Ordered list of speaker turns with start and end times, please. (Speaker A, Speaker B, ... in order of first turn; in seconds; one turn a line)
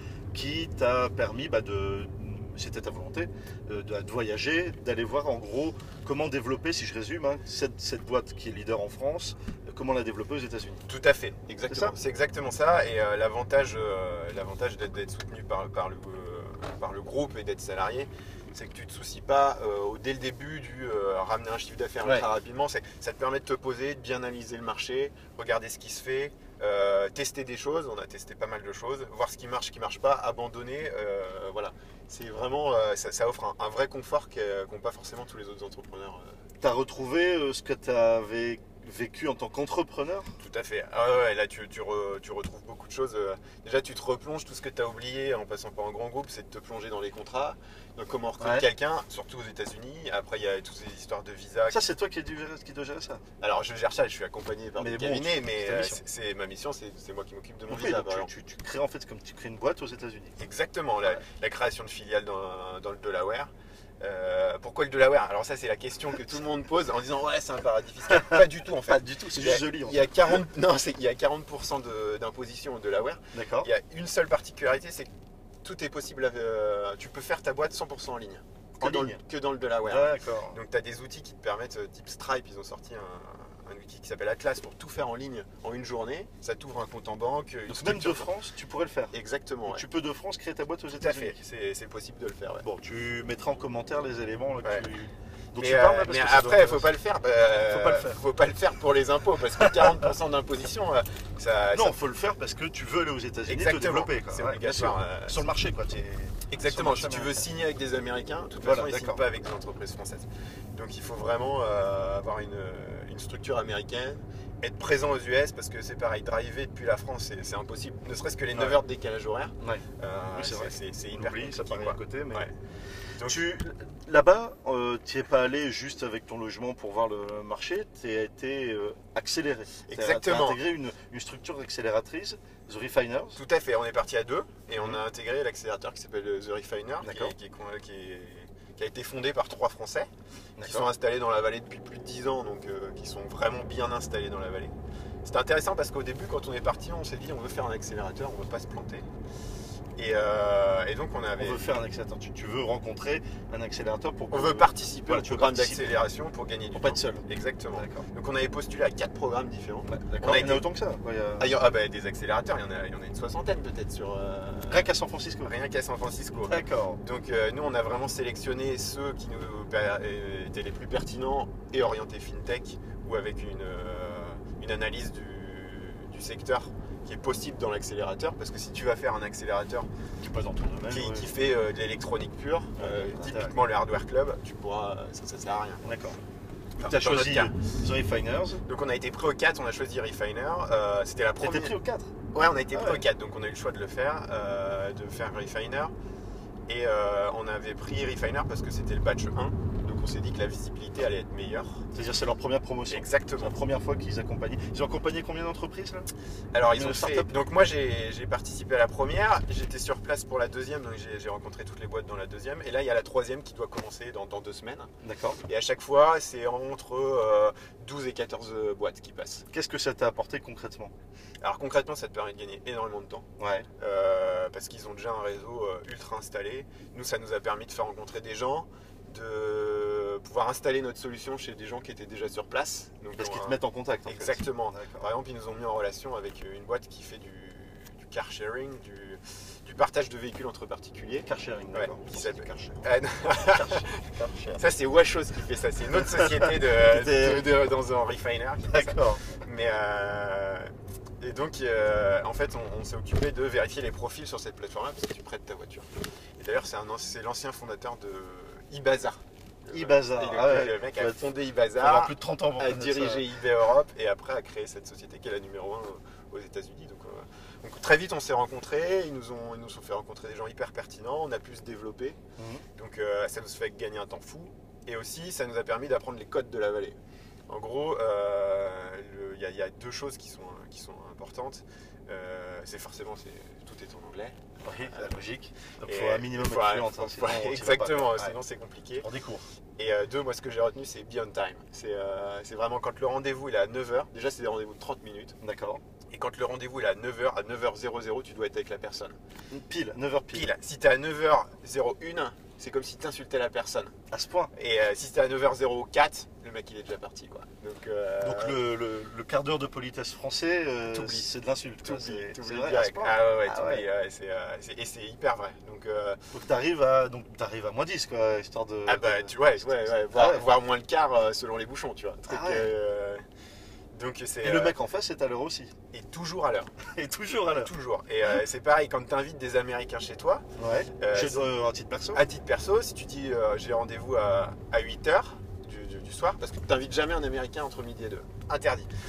Speaker A: 0.3-10.8
Speaker B: 10.9-36.4
Speaker A: 36.6-40.3
Speaker B: 40.4-51.8
Speaker A: 48.4-48.7
Speaker A: 51.7-53.2
Speaker B: 53.4-58.3
Speaker A: 54.8-56.0
Speaker A: 57.7-60.3
Speaker B: 60.4-75.1
Speaker A: 68.1-70.4
Speaker A: 73.3-73.7
Speaker B: 75.6-88.3
Speaker A: 78.8-79.2
Speaker A: 79.8-80.6
Speaker A: 87.7-89.1
Speaker B: 89.1-89.9
Speaker A: 89.7-91.4
Speaker B: 91.0-92.7
Speaker A: 92.6-96.9
Speaker B: 94.6-94.9
Speaker B: 95.6-102.0
Speaker A: 97.7-98.2
Speaker A: 101.7-107.5
Speaker B: 103.5-105.4
Speaker B: 106.5-122.5
Speaker A: 108.6-109.2
Speaker A: 118.5-118.8
Speaker A: 120.3-122.5
Speaker B: 123.2-123.5
Speaker A: 123.2-133.4
Speaker B: 129.9-130.6
Speaker B: 133.3-140.1
Speaker A: 137.0-137.3
Speaker A: 140.6-140.9
Speaker B: 140.6-149.1
Speaker B: 150.0-151.7
Speaker A: 151.4-156.0
Speaker B: 154.3-160.7
Speaker A: 156.7-158.0
Speaker A: 159.9-161.5
Speaker B: 161.4-164.9
Speaker A: 164.7-165.5
Speaker B: 165.4-179.9
Speaker A: 166.4-167.0
Speaker A: 180.2-181.3
Speaker B: 180.8-185.8
Speaker A: 182.8-183.5
Speaker A: 185.8-186.2
Speaker B: 186.8-187.5
Speaker A: 186.8-188.6
Speaker B: 188.6-191.7
Speaker A: 191.4-192.1
Speaker B: 192.3-195.9
Speaker A: 192.7-193.0
Speaker B: 196.7-201.8
Speaker A: 201.9-206.1
Speaker B: 202.9-203.6
Speaker B: 206.5-214.9
Speaker A: 206.7-207.3
Speaker A: 215.0-215.4
Speaker B: 215.4-219.4
Speaker A: 219.5-220.9
Speaker B: 221.4-223.2
Speaker A: 223.4-223.7
Speaker B: 223.8-244.0
Speaker A: 233.2-235.1
Speaker A: 241.2-244.6
Speaker B: 244.6-250.7
Speaker A: 246.0-247.5
Speaker A: 248.7-249.4
Speaker B: 251.2-272.2
Speaker A: 259.7-263.2
Speaker A: 272.4-272.6
Speaker B: 272.8-277.0
Speaker B: 277.5-284.4
Speaker A: 284.6-288.3
Speaker B: 284.9-285.2
Speaker B: 285.8-289.1
Speaker A: 289.0-289.4
Speaker B: 289.8-295.3
Speaker A: 295.4-295.8
Speaker B: 296.1-299.1
Speaker A: 299.5-300.5
Speaker B: 300.3-303.9
Speaker A: 304.1-304.5
Speaker B: 304.5-308.6
Speaker A: 308.2-313.8
Speaker B: 310.9-316.2
Speaker A: 316.3-320.5
Speaker B: 318.9-323.2
Speaker A: 322.3-322.7
Speaker B: 323.9-324.7
Speaker A: 324.4-325.7
Speaker B: 325.9-326.7
Speaker A: 326.8-327.7
Speaker B: 327.5-330.4
Speaker A: 330.6-332.2
Speaker B: 331.0-331.5
Speaker B: 332.1-338.9